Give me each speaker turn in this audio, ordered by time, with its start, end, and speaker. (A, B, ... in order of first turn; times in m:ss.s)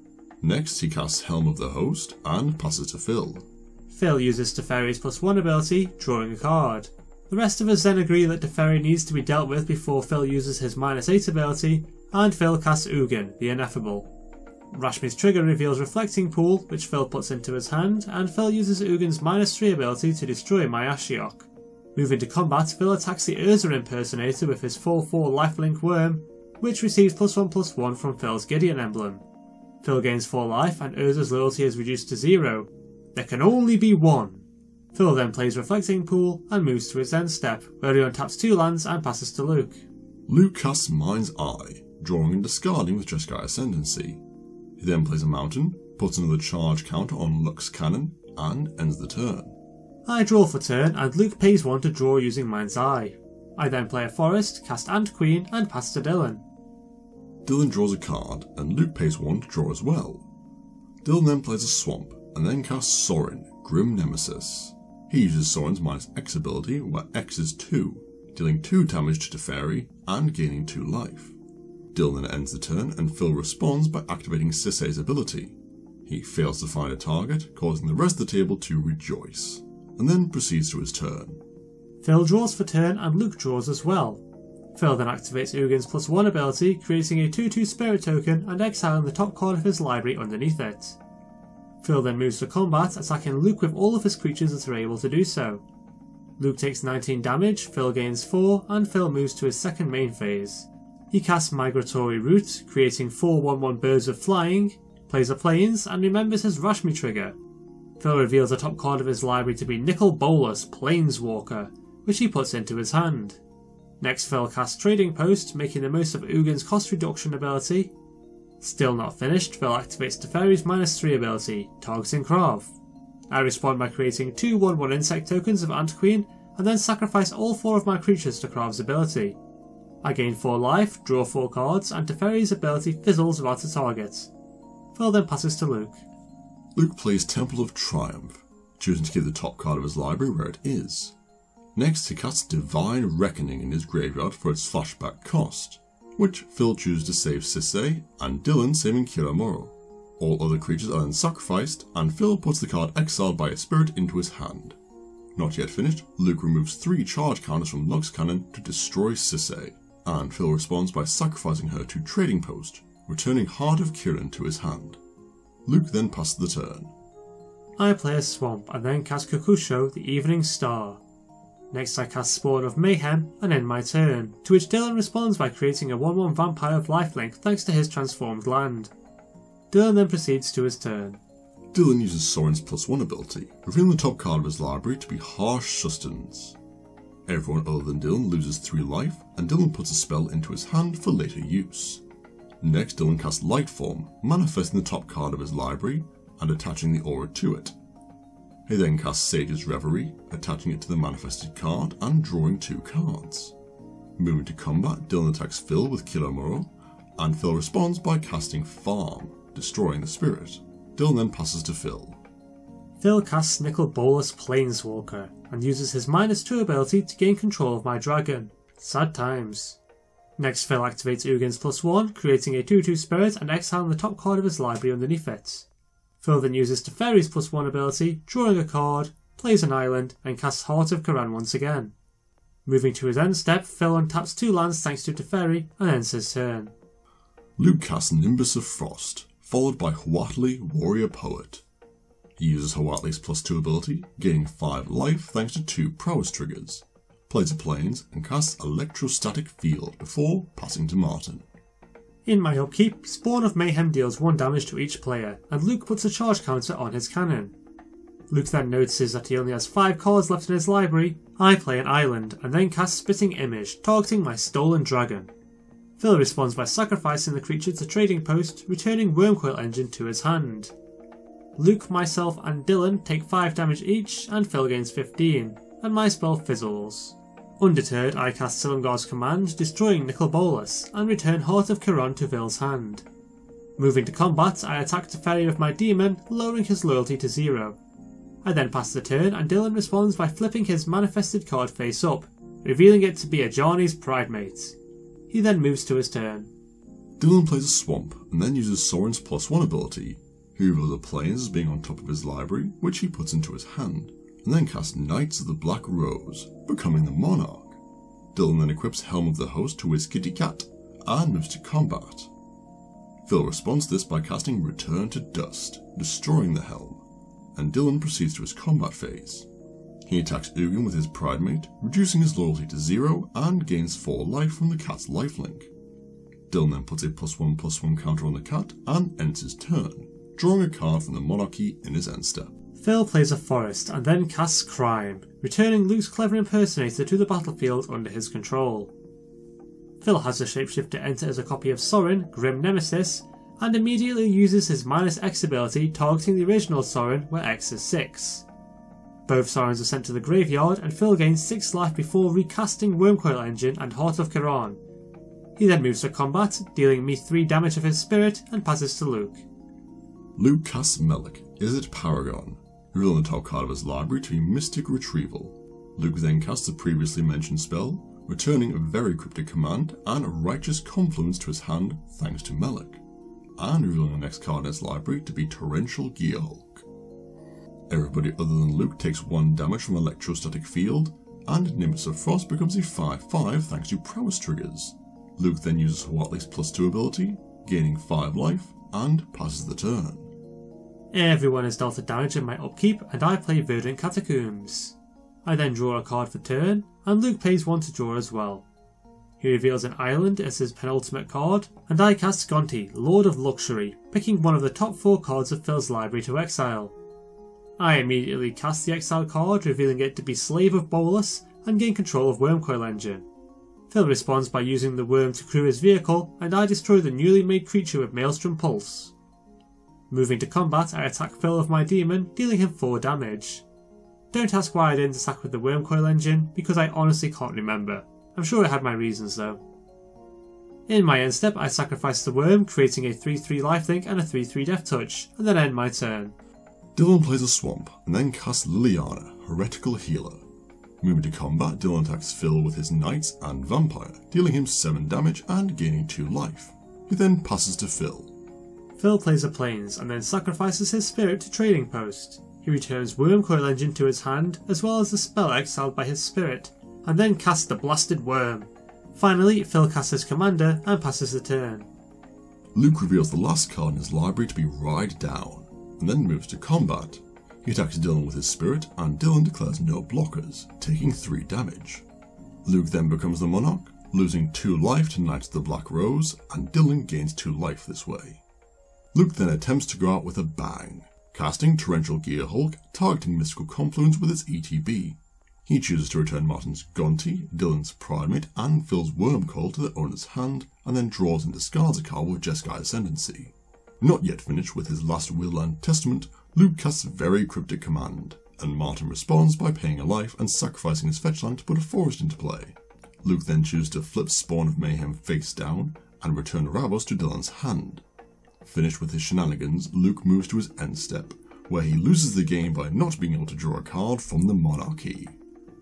0:00.4-0:03.4 A
0:03.9-0:14.1 B
0:14.7-0:29.2 B
0:29.8-0:39.8 B
0:40.3-0:44.2 A
0:44.8-0:49.6 A
0:50.1-0:56.4 B
0:57.4-1:00.2 A
1:01.0-1:11.4 A
1:11.9-1:21.4 A
1:22.0-1:24.2 B
1:24.7-1:31.0 B
1:31.8-1:35.6 B
1:36.4-1:47.4 B
1:48.0-1:53.4 B
1:54.0-1:57.9 B
1:58.6-2:02.7 B
2:03.3-2:09.4 B
2:10.0-2:14.3 B
2:14.9-2:16.0 B
2:16.8-2:21.2 A
2:21.8-2:34.8 A
2:35.4-2:45.0 A
2:45.7-2:46.9 A
2:47.8-2:51.0 B
2:51.7-2:58.9 B
2:59.7-3:01.2 B
3:01.7-3:06.6 A
3:07.3-3:12.0 A
3:12.6-3:17.8 A
3:18.7-3:23.6 A
3:24.2-3:32.2 A
3:33.0-3:39.8 B
3:40.4-3:45.7 B
3:46.2-3:51.9 B
3:52.7-3:56.7 B
3:57.6-4:01.6 A
4:02.4-4:11.5 A
4:12.2-4:17.5 B
4:18.3-4:25.3 B
4:26.0-4:30.7 B
4:31.6-4:43.0 B
4:43.8-4:47.8 B
4:48.4-4:54.8 B
4:55.3-4:56.5 B
4:57.2-5:07.8 A
5:08.3-5:12.3 A
5:13.2-5:17.0 A
5:17.5-5:19.5 A
5:20.0-5:25.7 A
5:26.5-5:32.5 A
5:32.8-5:38.9 B
5:40.0-5:48.4 B
5:49.3-5:54.8 B
5:55.6-5:59.4 B
6:00.4-6:13.0 A
6:13.6-6:16.9 A
6:17.9-6:30.3 A
6:31.1-6:38.7 B
6:39.4-6:46.9 B
6:47.8-6:53.2 B
6:53.9-6:59.1 B
7:00.1-7:03.6 B
7:04.3-7:09.6 B
7:10.9-7:16.4 B
7:17.0-7:20.4 A
7:21.0-7:28.3 A
7:29.0-7:41.9 B
7:42.8-7:52.0 A
7:52.6-7:58.4 A
7:59.1-8:28.0 A
8:28.6-8:35.4 A